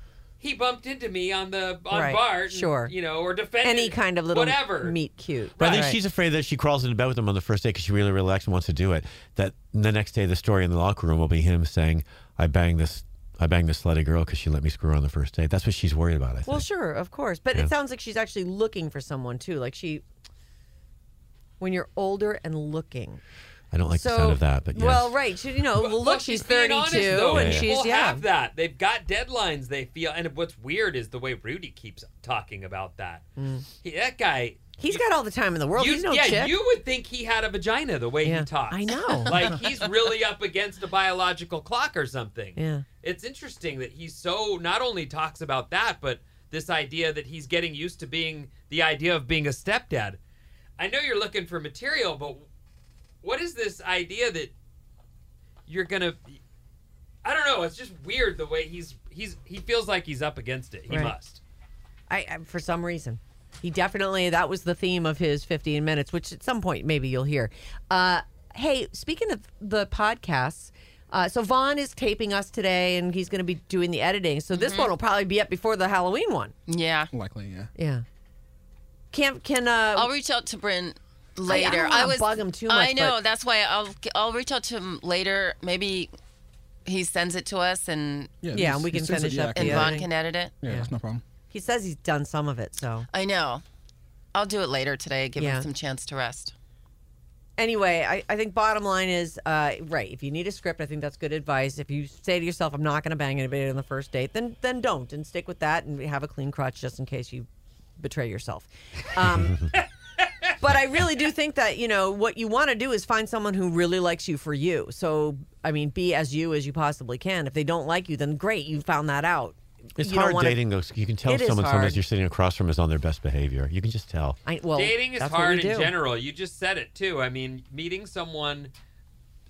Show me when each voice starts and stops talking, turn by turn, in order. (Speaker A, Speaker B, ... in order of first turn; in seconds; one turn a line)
Speaker A: 0.4-5.0
Speaker B: 1.9-2.9
Speaker B: 3.6-6.0
Speaker A: 5.6-5.9
Speaker C: 5.6-16.6
Speaker B: 16.4-20.0
Speaker B: 21.6-23.2
Speaker C: 23.7-25.2
Speaker B: 23.9-28.2
Speaker A: 25.8-33.2
Speaker C: 27.3-27.7
Speaker B: 33.4-33.6
Speaker A: 33.8-35.0
Speaker B: 34.8-36.5
Speaker A: 35.7-50.2
Speaker B: 38.2-39.6
Speaker B: 42.5-42.8
Speaker A: 50.8-52.5
Speaker A: 53.2-54.5
Speaker A: 55.7-56.4
Speaker A: 57.2-61.4
Speaker B: 62.1-76.5
Speaker D: 74.5-74.9
Speaker D: 76.7-77.1
Speaker E: 77.1-77.7
Speaker B: 77.7-78.0
Speaker B: 79.1-80.1
Speaker D: 79.9-86.1
Speaker B: 81.5-83.2
Speaker D: 86.8-88.4
Speaker E: 88.4-90.0
Speaker B: 88.5-90.1
Speaker D: 89.5-90.6
Speaker E: 90.6-91.2
Speaker B: 90.6-90.9
Speaker B: 91.5-93.1
Speaker D: 93.1-93.6
Speaker D: 94.3-96.5
Speaker B: 95.3-95.7
Speaker B: 97.6-107.5
Speaker B: 108.0-109.7
Speaker B: 110.6-120.6
Speaker C: 120.0-124.4
Speaker B: 121.2-122.0
Speaker B: 124.5-125.9
Speaker A: 124.8-128.7